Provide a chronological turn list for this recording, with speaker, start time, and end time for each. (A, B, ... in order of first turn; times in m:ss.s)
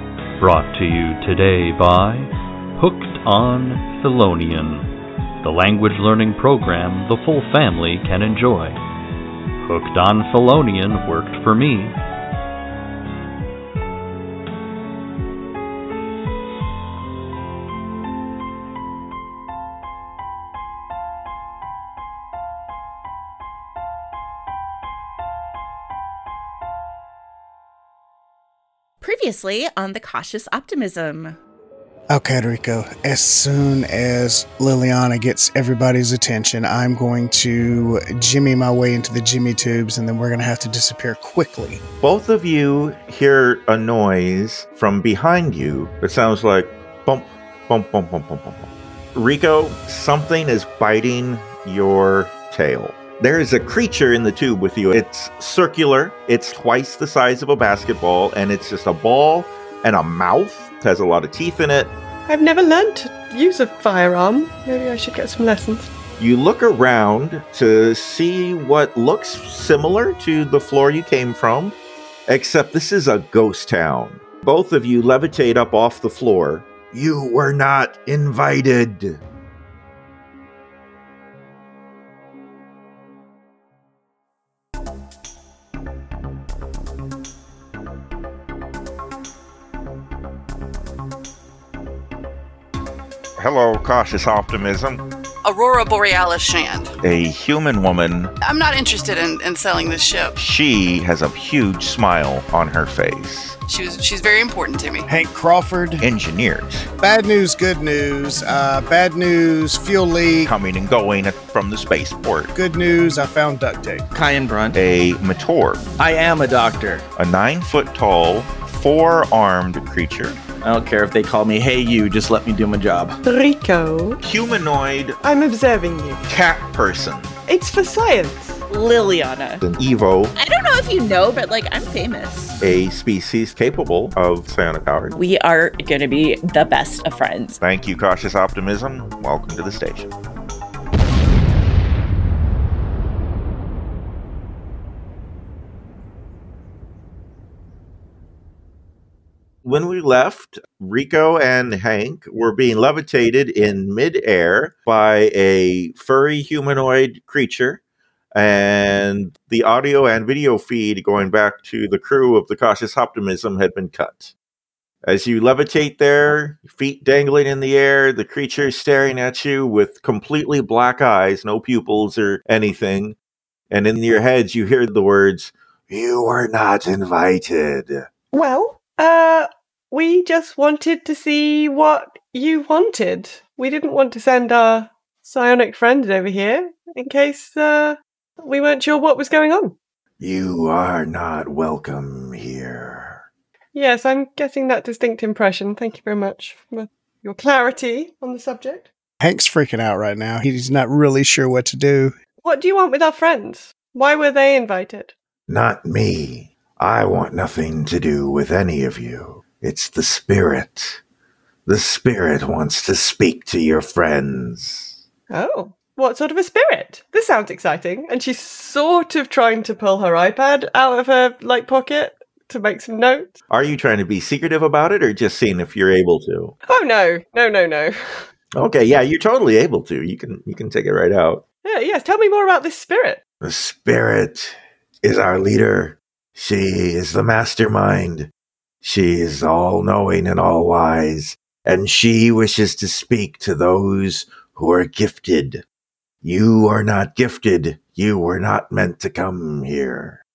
0:00.4-0:04.9 A
0:05.4-0:08.8 A
0:09.6-0:11.9 A
0:29.0-0:31.4 B
0:32.1-0:41.8 C
0:42.0-1:01.9 D
1:02.3-1:05.9 E
1:06.2-1:19.2 D
1:33.4-1:35.0 D
1:35.4-1:37.0 F
1:37.0-1:38.3 D
1:38.4-1:40.3 F
1:40.4-1:43.6 D
1:43.7-1:45.1 F
1:45.1-1:46.1 C
1:46.0-1:46.9 D
1:47.0-1:50.5 C
1:50.4-1:52.5 D
1:52.5-1:54.0 C
1:54.1-1:54.8 G
1:54.7-1:55.8 D
1:56.0-1:57.0 G
1:57.2-2:00.4 D
2:00.6-2:03.2 G
2:03.2-2:04.2 E
2:04.2-2:05.2 D
2:05.2-2:06.2 E
2:06.3-2:07.3 D
2:07.5-2:08.6 E
2:08.7-2:09.6 B
2:09.6-2:10.3 D
2:10.4-2:12.6 B
2:12.6-2:15.1 D
2:15.1-2:17.6 B
2:17.6-2:20.1 D
2:29.6-2:37.8 D
2:38.4-2:44.3 D
2:45.0-2:53.2 D
2:53.7-2:58.1 D
2:58.3-3:09.8 E
3:10.2-3:13.2 D
3:13.7-3:18.9 E
3:19.2-3:22.2 C
3:22.4-3:25.1 E
3:25.5-3:31.0 D
3:31.7-3:35.0 D
3:35.3-3:43.3 E
3:43.5-3:46.6 D
3:46.7-3:47.9 E
3:48.6-3:51.4 D
3:51.6-3:53.2 E
3:53.4-3:58.3 D
3:58.8-4:05.6 D
4:06.2-4:10.2 D